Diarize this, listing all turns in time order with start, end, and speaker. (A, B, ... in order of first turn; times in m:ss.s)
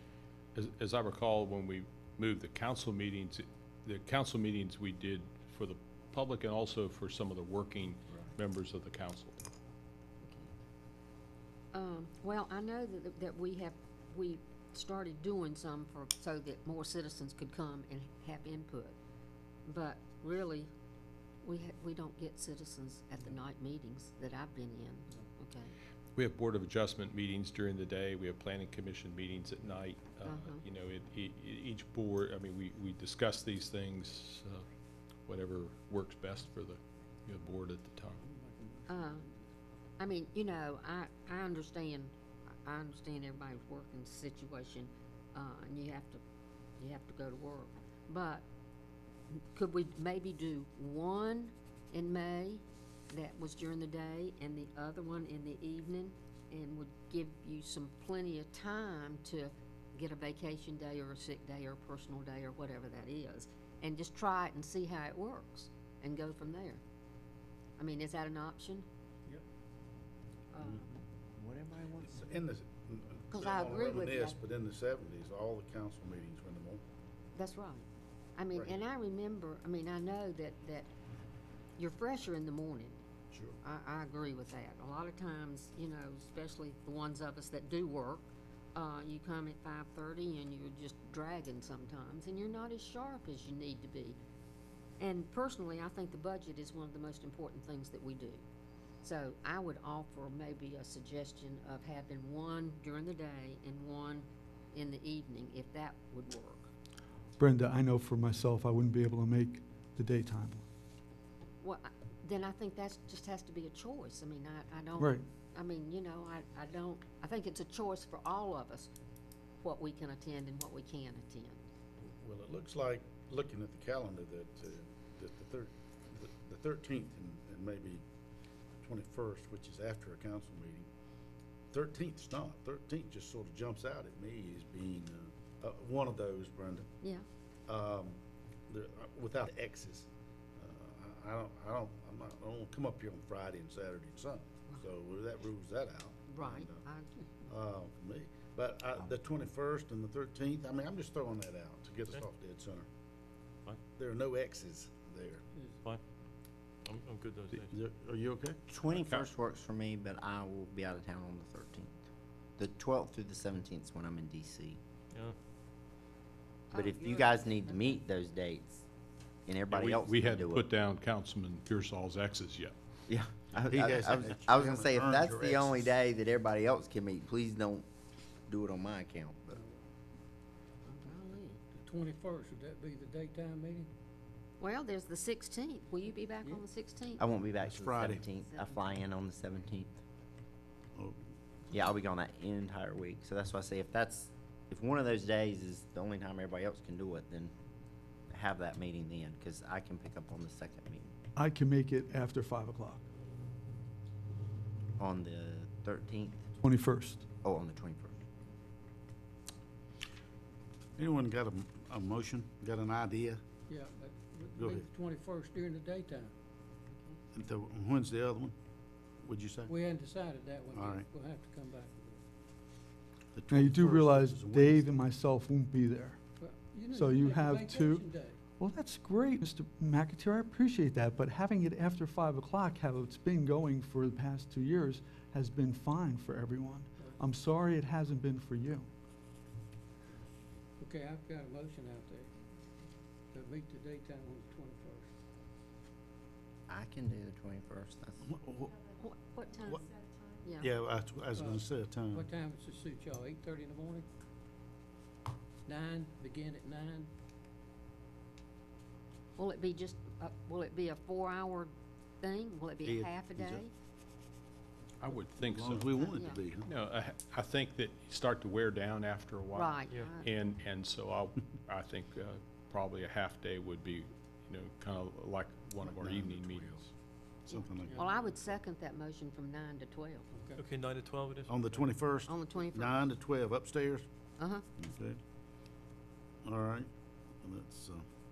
0:00.5-0:09.4 A
0:10.2-0:10.5 B
0:11.7-0:19.0 B
0:19.6-0:20.7 B
0:21.4-0:25.7 B
0:26.2-0:34.6 A
0:30.2-0:30.6 B
0:35.3-0:38.2 A
0:38.2-0:39.4 C
0:38.9-0:39.3 B
0:40.0-0:42.1 B
0:42.6-0:46.2 B
0:46.8-0:48.4 B
0:49.5-1:06.8 B
1:07.8-1:08.8 B
1:10.5-1:10.9 B
1:11.4-1:12.3 D
1:12.1-1:16.8 E
1:13.3-1:14.4 B
1:17.3-1:17.8 B
1:18.4-1:20.9 B
1:21.8-1:23.0 B
1:23.3-1:23.6 E
1:23.6-1:34.2 B
1:35.0-1:38.4 B
1:39.0-1:46.7 B
1:47.4-1:50.6 F
1:51.6-1:58.9 B
1:59.6-2:01.6 B
2:02.2-2:08.0 E
2:08.8-2:10.9 E
2:11.7-2:16.9 E
2:17.0-2:17.2 B
2:17.7-2:18.2 E
2:18.7-2:26.8 E
2:26.3-2:27.1 B
2:27.5-2:32.9 E
2:34.0-2:35.4 E
2:36.8-2:37.8 G
2:37.5-2:38.6 E
2:38.7-2:42.0 D
2:42.6-2:44.8 D
2:46.7-2:47.9 B
2:46.7-2:48.8 D
2:49.5-2:50.7 D
2:49.7-2:52.7 A
2:53.1-2:57.9 D
2:53.6-2:55.8 E
2:58.5-2:59.6 D
2:59.5-2:59.8 C
3:00.8-3:01.6 B
3:01.7-3:03.9 C
3:04.6-3:07.2 B
3:07.2-3:10.0 D
3:07.6-3:08.2 E
3:08.4-3:08.8 B
3:11.7-3:17.5 D
3:18.3-3:21.1 D
3:21.3-3:23.0 F
3:25.0-3:26.4 D
3:26.6-3:27.3 F
3:27.4-3:28.2 D
3:31.0-3:33.4 E
3:33.7-3:36.3 C
3:34.6-3:34.8 E
3:36.9-3:37.2 B
3:37.3-3:38.5 E
3:39.2-3:39.7 E
3:39.7-3:42.2 C
3:40.7-3:41.1 E
3:43.3-3:44.9 E
3:43.5-3:46.2 F
3:46.4-3:48.4 C
3:46.9-3:58.9 F
4:00.8-4:02.3 C
4:03.3-4:05.1 C
4:06.7-4:08.2 D
4:08.2-4:08.8 E
4:09.0-4:09.9 B
4:10.4-4:10.7 B
4:10.6-4:12.2 E
4:11.3-4:14.0 C
4:15.7-4:17.1 C
4:19.4-4:23.7 B
4:22.8-4:23.6 E
4:25.0-4:26.1 A
4:25.4-4:26.7 E
4:26.0-4:26.4 B
4:26.6-4:36.9 A
4:29.5-4:30.3 B
4:35.8-4:36.7 E
4:37.4-4:38.4 E
4:37.5-4:40.3 B
4:37.8-4:38.2 C
4:40.3-4:40.6 C
4:40.6-4:41.9 G
4:41.5-4:44.0 E
4:42.3-4:43.0 B
4:44.4-4:44.6 B
4:44.8-4:45.2 E
4:46.4-4:46.9 E
4:47.4-4:48.0 E